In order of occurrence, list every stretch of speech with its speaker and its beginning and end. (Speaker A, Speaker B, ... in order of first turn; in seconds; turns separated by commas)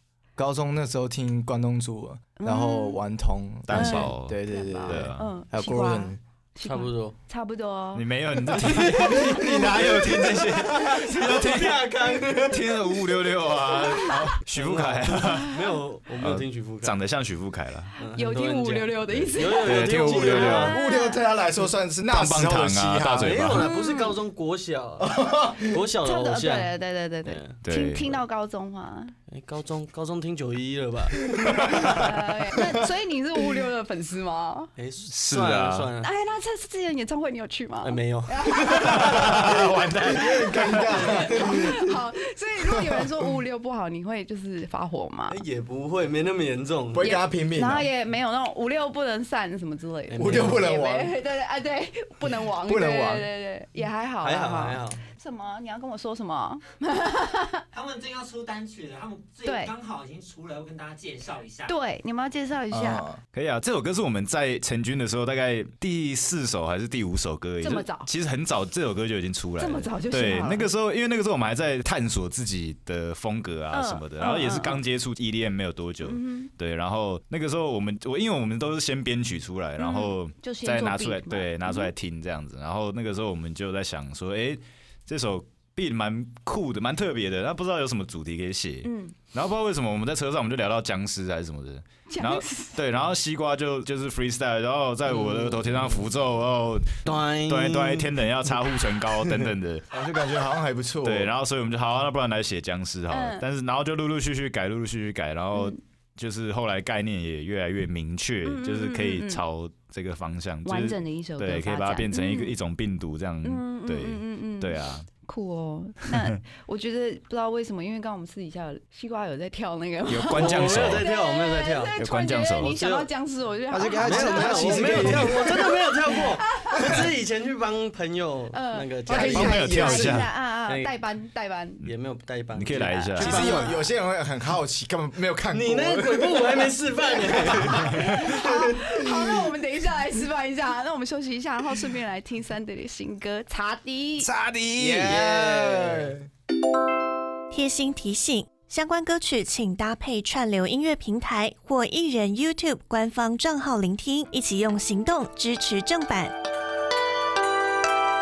Speaker A: 0.4-6.2, Speaker B: 2.4-3.0, Speaker C: 3.7-5.3, Speaker B: 3.7-8.1, Speaker D: 6.6-7.2, Speaker C: 7.9-15.6, Speaker D: 8.6-13.0, Speaker B: 13.7-14.2, Speaker D: 14.5-17.0, Speaker C: 16.2-17.9, Speaker D: 18.0-20.8, Speaker B: 18.1-21.2, Speaker C: 19.1-20.8, Speaker A: 20.4-23.4, Speaker C: 22.1-23.7, Speaker D: 23.2-26.7, Speaker B: 23.5-24.1, Speaker A: 25.0-25.7, Speaker B: 26.0-29.1, Speaker D: 27.2-27.6, Speaker C: 27.6-28.2, Speaker D: 29.3-31.7, Speaker C: 31.6-32.0, Speaker B: 31.8-34.7, Speaker D: 34.8-36.1, Speaker C: 35.1-35.9, Speaker B: 36.0-39.5, Speaker D: 37.8-39.4, Speaker C: 38.7-41.1, Speaker A: 40.0-41.8, Speaker B: 40.2-45.4, Speaker D: 45.3-47.1, Speaker A: 46.9-47.9, Speaker B: 47.0-57.6, Speaker D: 50.1-50.6, Speaker A: 50.2-51.1, Speaker A: 52.2-53.3, Speaker D: 54.2-55.0, Speaker E: 57.8-61.7, Speaker B: 59.4-59.8, Speaker B: 61.6-63.0, Speaker A: 62.7-63.2, Speaker C: 63.3-99.9, Speaker B: 67.6-68.1, Speaker B: 69.6-70.7, Speaker B: 73.7-74.8, Speaker B: 76.0-76.5, Speaker B: 79.8-81.9, Speaker B: 88.8-89.2, Speaker B: 92.1-92.8, Speaker D: 95.1-96.0, Speaker D: 97.0-99.3, Speaker A: 99.9-101.3, Speaker C: 101.0-115.1, Speaker B: 103.1-103.5, Speaker B: 108.4-109.4, Speaker B: 110.6-112.5, Speaker B: 113.4-125.7, Speaker C: 120.1-121.1, Speaker D: 120.3-122.0, Speaker C: 122.0-122.7, Speaker D: 122.6-123.1, Speaker A: 123.7-125.8, Speaker D: 124.0-129.7, Speaker A: 126.8-127.0, Speaker B: 128.5-131.8, Speaker A: 129.1-130.2, Speaker C: 129.1-130.3, Speaker D: 130.7-130.9, Speaker D: 131.8-133.8, Speaker C: 132.5-133.5, Speaker A: 133.2-136.7, Speaker B: 133.3-133.7, Speaker D: 135.5-138.4, Speaker B: 137.9-144.3, Speaker C: 144.2-145.1, Speaker A: 144.8-146.2, Speaker D: 145.0-146.2, Speaker F: 147.5-156.3